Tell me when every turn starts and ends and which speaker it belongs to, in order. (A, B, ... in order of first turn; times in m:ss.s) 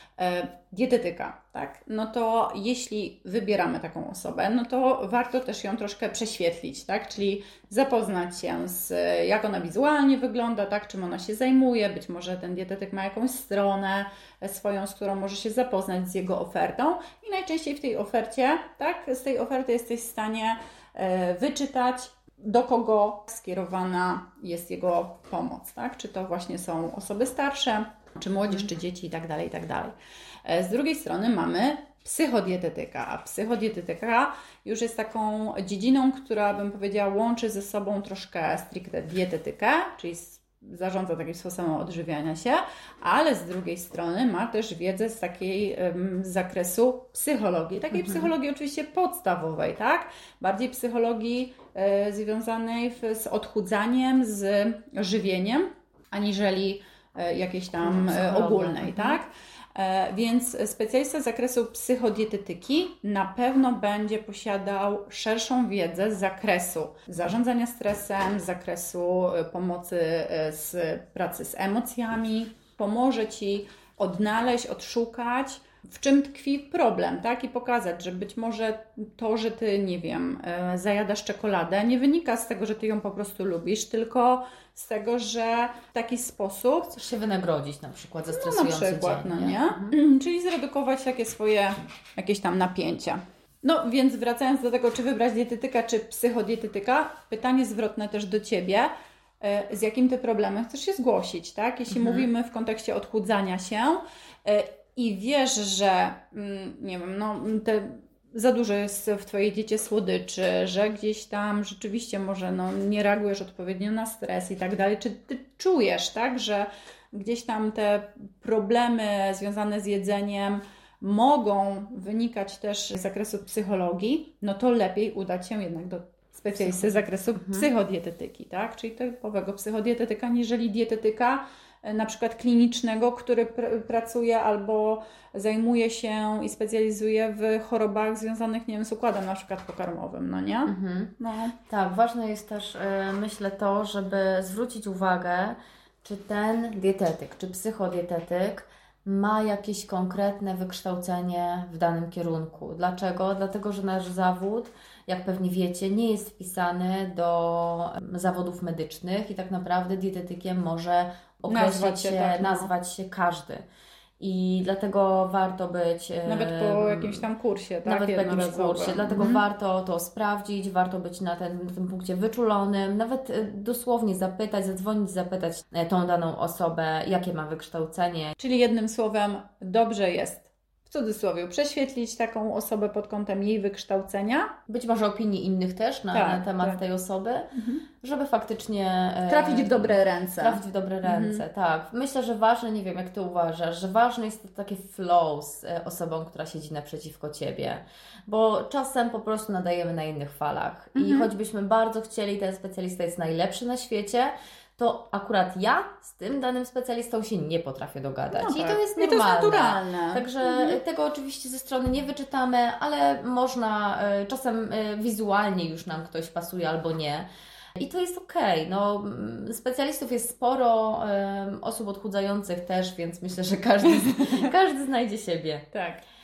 0:00.2-1:27.0 A
0:48.0-0:48.3 B
0:57.8-0:59.2 B
1:26.9-1:30.0 B
1:28.3-2:21.6 A
1:41.9-1:42.3 B
2:06.6-2:07.7 B
2:20.7-2:21.1 B
2:21.7-2:43.6 B
2:41.5-2:42.7 A
2:44.2-2:47.3 B
2:46.3-2:49.4 A
2:47.8-2:58.3 B
2:58.4-3:04.5 A
3:04.7-3:45.7 B
3:06.1-3:06.8 A
3:07.6-3:07.8 A
3:09.3-3:11.4 A
3:21.0-3:21.3 A
3:28.3-3:30.8 A
3:43.9-3:44.4 A
3:45.7-3:46.0 A